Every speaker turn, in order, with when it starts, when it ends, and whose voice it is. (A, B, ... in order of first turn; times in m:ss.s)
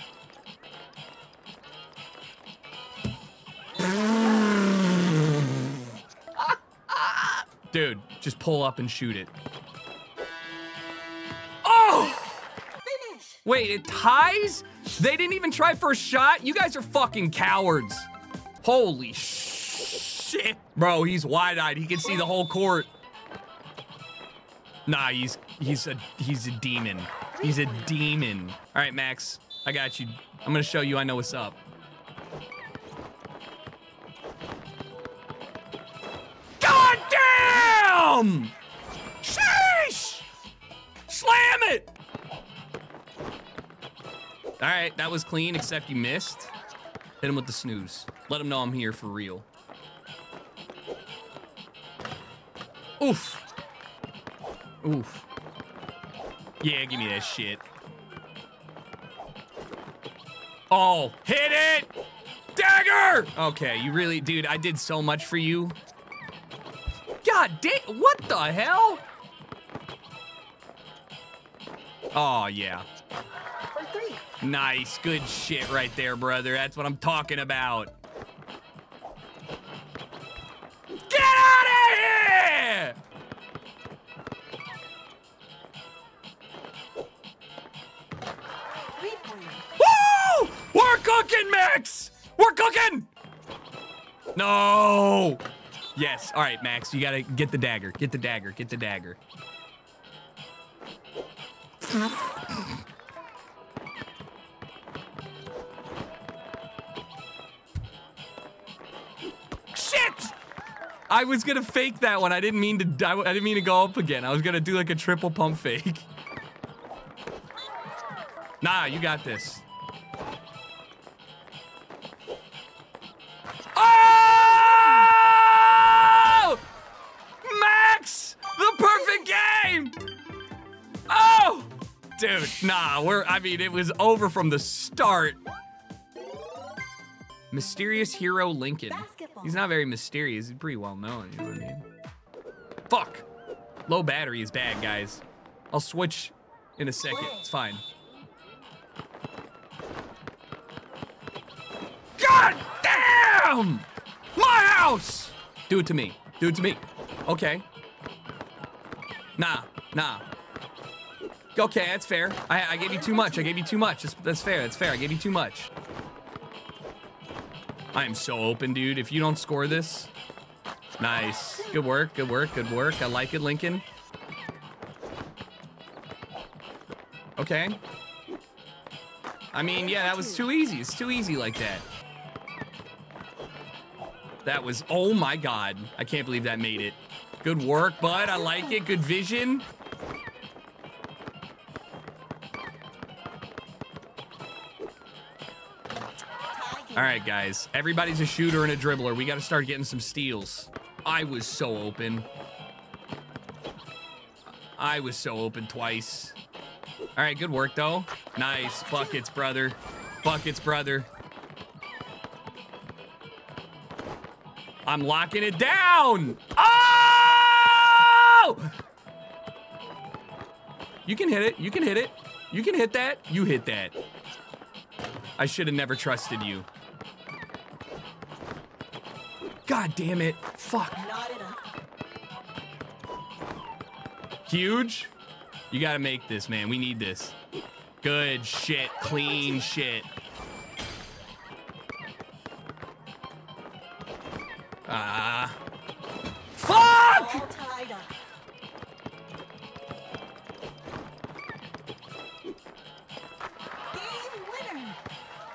0:04.0-0:05.7 A
0:06.4-0:09.3 A
0:11.6-0:12.4 A
0:12.8-0:13.4 B
0:13.4-0:18.1 A
0:18.6-0:22.9 A
0:24.8-0:31.6 A
0:27.4-0:28.0 B
0:36.6-0:38.5 A
0:39.2-0:40.2 A
0:41.1-0:41.9 A
0:44.6-0:46.5 A
0:47.2-0:49.4 A
0:53.0-0:53.4 A
0:54.8-0:55.2 A
0:56.6-0:57.6 A
1:00.7-1:01.9 A
1:02.5-1:05.8 A
1:07.2-1:09.0 A
1:12.1-1:12.8 A
1:13.7-1:14.2 B
1:14.4-1:17.9 A
1:21.0-1:23.0 A
1:28.9-1:29.6 B
1:29.8-1:33.1 A
1:34.3-1:35.4 A
1:35.9-1:39.2 A
1:42.0-1:42.6 A
1:49.7-1:50.3 A
1:51.1-1:56.1 A
1:58.6-1:59.6 A
2:03.7-2:06.6 A
2:07.4-2:09.9 A
2:11.1-2:15.4 A
2:17.5-2:21.8 A
2:18.9-2:19.6 B
2:22.9-2:23.2 A
2:23.9-2:27.8 A
2:27.1-2:27.4 B
2:32.2-2:37.6 A
2:39.4-2:40.2 A
2:41.5-2:45.7 A
2:42.9-2:43.6 B
2:47.9-2:50.1 A
2:51.0-2:53.8 A
2:57.4-2:57.8 A
2:59.5-3:01.8 A
2:59.6-3:00.4 B
3:04.4-3:09.6 A
3:16.5-3:17.2 B
3:16.9-3:22.3 A
3:24.7-3:26.4 A
3:27.2-3:31.1 A
3:28.6-3:29.2 B
3:34.8-3:38.7 A
3:41.0-3:44.0 A
3:45.4-3:46.7 A
3:49.7-3:51.1 A
3:51.0-3:51.6 B
3:54.4-3:55.1 A
3:55.7-3:57.4 A
3:58.0-4:00.1 A
3:59.0-3:59.7 B
4:04.9-4:05.6 A
4:06.5-4:07.5 A
4:07.1-4:08.1 B
4:13.9-4:15.0 B